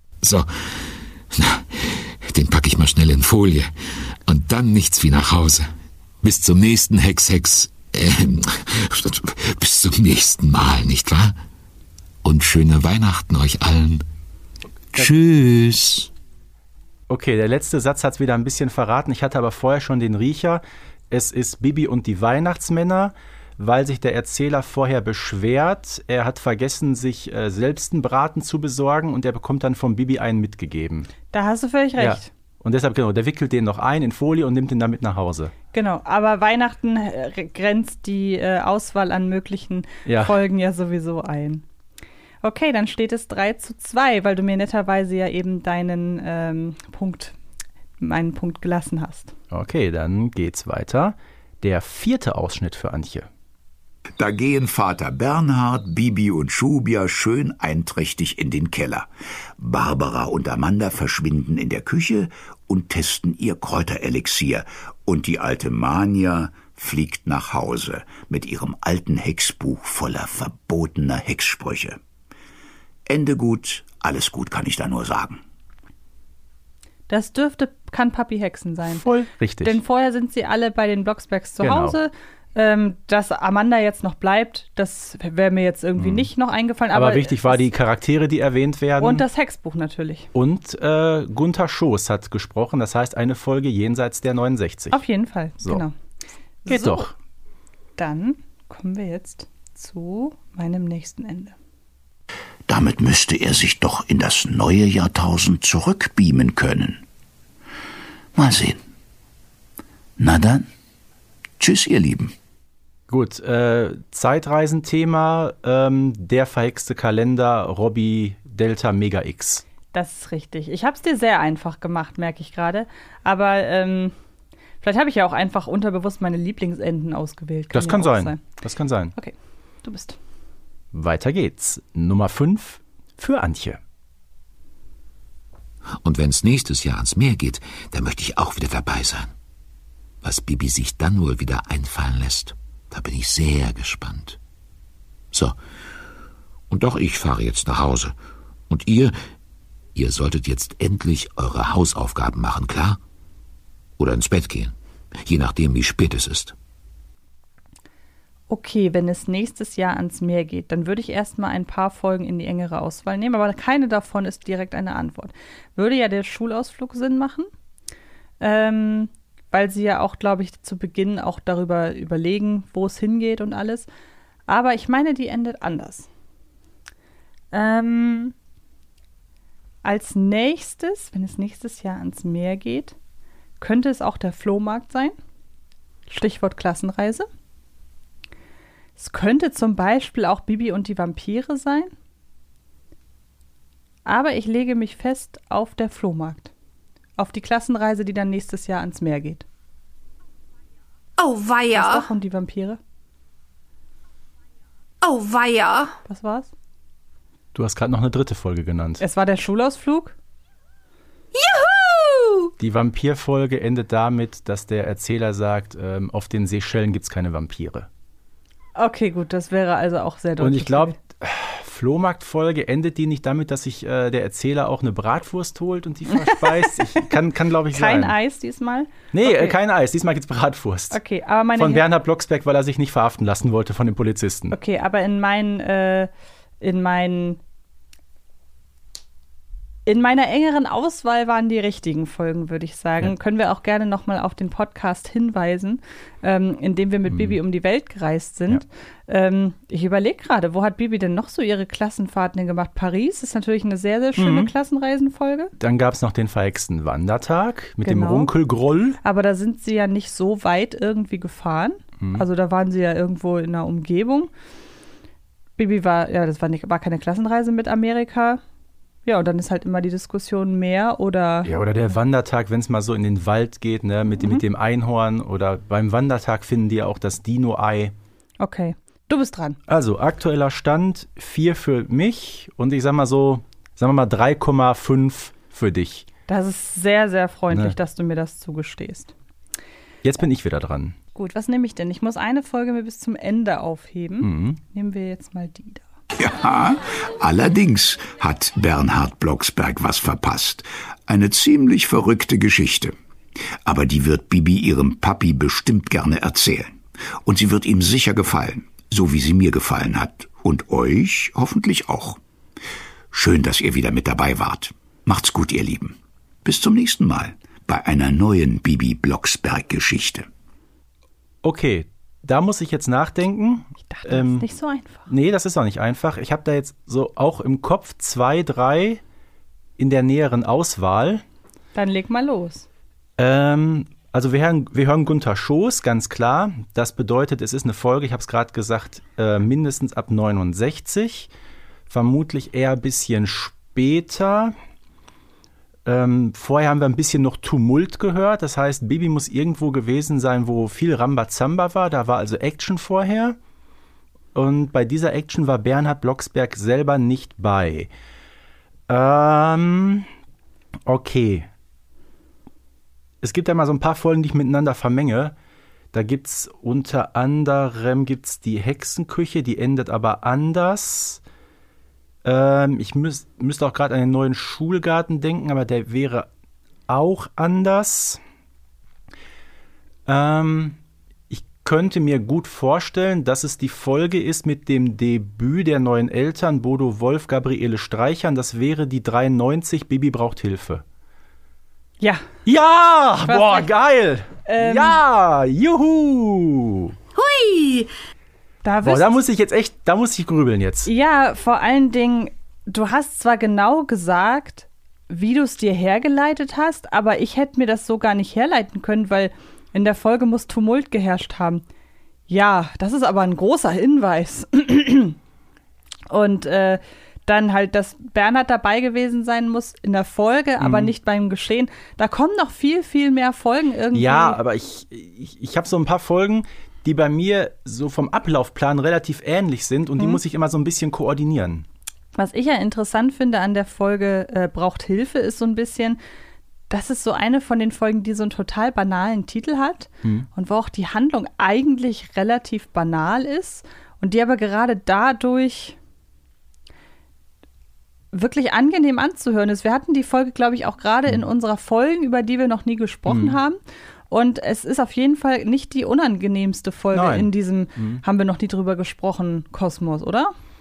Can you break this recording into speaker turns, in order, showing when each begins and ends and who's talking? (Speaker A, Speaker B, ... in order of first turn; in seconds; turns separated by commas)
Speaker A: 0.2-3.7, Speaker A: 4.2-5.7, Speaker A: 6.2-11.4, Speaker A: 12.2-14.1, Speaker A: 14.9-16.1, Speaker B: 17.1-31.1, Speaker C: 31.3-32.3, Speaker B: 32.0-35.5, Speaker C: 35.7-41.6, Speaker B: 40.1-40.4, Speaker C: 42.4-47.4, Speaker C: 48.0-49.3, Speaker B: 49.5-53.3, Speaker D: 54.2-72.0, Speaker D: 73.1-75.4, Speaker C: 77.1-79.1, Speaker B: 78.9-79.8, Speaker C: 79.6-87.7, Speaker B: 81.6-82.0, Speaker B: 86.0-86.3, Speaker B: 86.9-89.2, Speaker C: 89.0-90.3, Speaker B: 90.3-95.0, Speaker C: 94.9-95.9, Speaker C: 96.7-97.1, Speaker B: 96.7-97.1, Speaker C: 98.0-101.5, Speaker D: 102.7-107.0, Speaker D: 108.3-108.8, Speaker D: 110.2-110.7, Speaker D: 111.6-112.3, Speaker B: 113.1-119.6, Speaker C: 119.9-124.1, Speaker C: 124.8-128.4, Speaker B: 127.7-129.1, Speaker C: 129.2-130.2, Speaker B: 130.9-133.8, Speaker A: 136.0-139.3, Speaker A: 140.2-144.4, Speaker A: 146.7-148.2, Speaker A: 148.7-149.2, Speaker A: 149.9-153.0, Speaker A: 154.0-156.6, Speaker C: 158.5-167.5, Speaker C: 168.4-173.9, Speaker C: 174.5-176.1, Speaker C: 177.5-178.3, Speaker C: 179.8-182.9, Speaker C: 183.6-185.2, Speaker C: 186.1-187.3, Speaker C: 189.0-191.9, Speaker C: 194.1-196.5, Speaker C: 197.2-199.4, Speaker E: 201.2-202.1, Speaker C: 201.7-202.8, Speaker E: 205.0-205.9, Speaker C: 206.1-206.5, Speaker B: 207.5-209.0, Speaker C: 209.0-210.2, Speaker E: 211.3-212.5, Speaker B: 212.6-217.9, Speaker C: 218.8-220.9, Speaker B: 220.4-228.2, Speaker C: 226.1-227.1, Speaker C: 227.7-229.6, Speaker B: 229.1-231.0, Speaker C: 230.9-231.8, Speaker B: 231.6-234.6, Speaker C: 234.5-236.1, Speaker C: 236.6-237.4, Speaker C: 239.8-255.5, Speaker B: 247.1-247.4, Speaker B: 254.2-254.5, Speaker B: 255.6-259.0, Speaker C: 257.8-258.3, Speaker C: 259.0-264.3, Speaker C: 265.6-268.4, Speaker C: 269.1-271.5, Speaker B: 271.4-277.9, Speaker C: 278.4-279.6, Speaker B: 279.7-286.1, Speaker C: 286.3-289.1, Speaker B: 290.0-290.9, Speaker C: 291.1-295.8, Speaker B: 294.2-294.6, Speaker D: 296.2-302.9, Speaker D: 303.6-312.2, Speaker D: 313.1-320.3, Speaker B: 321.4-324.4, Speaker C: 323.9-325.1, Speaker B: 325.1-329.0, Speaker B: 329.8-331.2, Speaker C: 331.7-332.7, Speaker B: 333.2-341.3, Speaker B: 341.9-344.6, Speaker B: 345.9-353.4, Speaker B: 354.3-357.9, Speaker B: 358.9-360.1, Speaker B: 360.9-361.5, Speaker B: 363.2-365.3, Speaker B: 365.9-371.2, Speaker B: 372.2-376.3, Speaker B: 376.9-378.2, Speaker B: 380.1-380.8, Speaker B: 381.3-390.8, Speaker C: 392.0-392.3, Speaker B: 392.4-396.9, Speaker C: 393.3-393.7, Speaker C: 394.4-395.0, Speaker E: 397.1-397.9, Speaker C: 398.6-399.2, Speaker B: 398.8-400.9, Speaker C: 400.8-411.6, Speaker C: 412.3-415.2, Speaker C: 416.1-424.4, Speaker B: 420.6-420.9, Speaker B: 423.9-431.6, Speaker C: 432.1-436.0, Speaker C: 436.7-445.8, Speaker C: 448.1-453.6, Speaker B: 453.1-453.4, Speaker C: 454.1-460.3, Speaker B: 456.9-458.0